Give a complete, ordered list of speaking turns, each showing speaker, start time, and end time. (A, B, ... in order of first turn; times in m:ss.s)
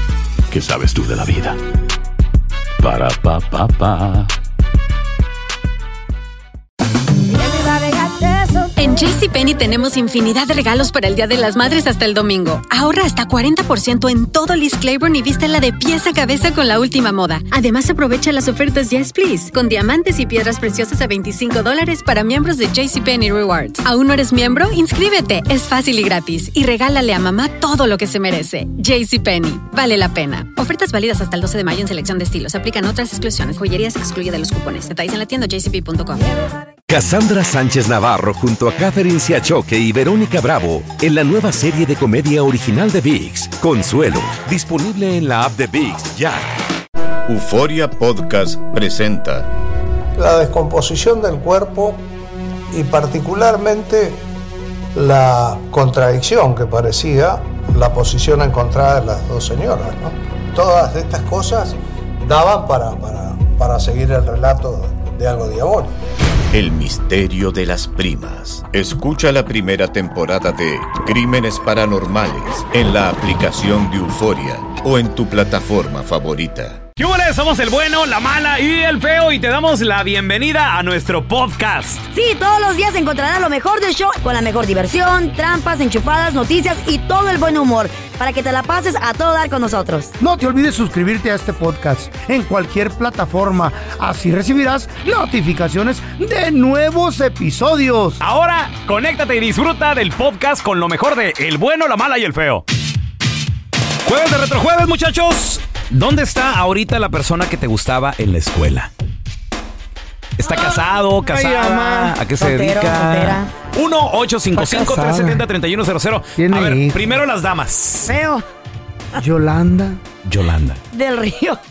0:00.5-0:01.6 A
0:02.8-0:04.3 A
0:08.8-0:36.3 B
0:36.9-0:46.5 C
0:47.3-0:49.5 D
0:50.2-0:52.0 E
0:52.7-0:54.2 E
0:55.0-1:06.0 E
1:06.5-1:16.8 D
1:17.0-1:22.0 F
1:22.1-1:30.1 G
1:30.2-1:38.2 H
1:38.2-1:42.6 F
1:44.0-1:48.9 F
1:50.4-1:58.2 F
1:50.4-1:52.2 H
1:52.4-1:53.5 G
1:54.6-1:55.4 H
1:56.4-1:57.1 H
1:58.1-1:58.4 G
1:59.2-2:00.0 H
2:00.2-2:00.8 F
2:00.9-2:01.6 G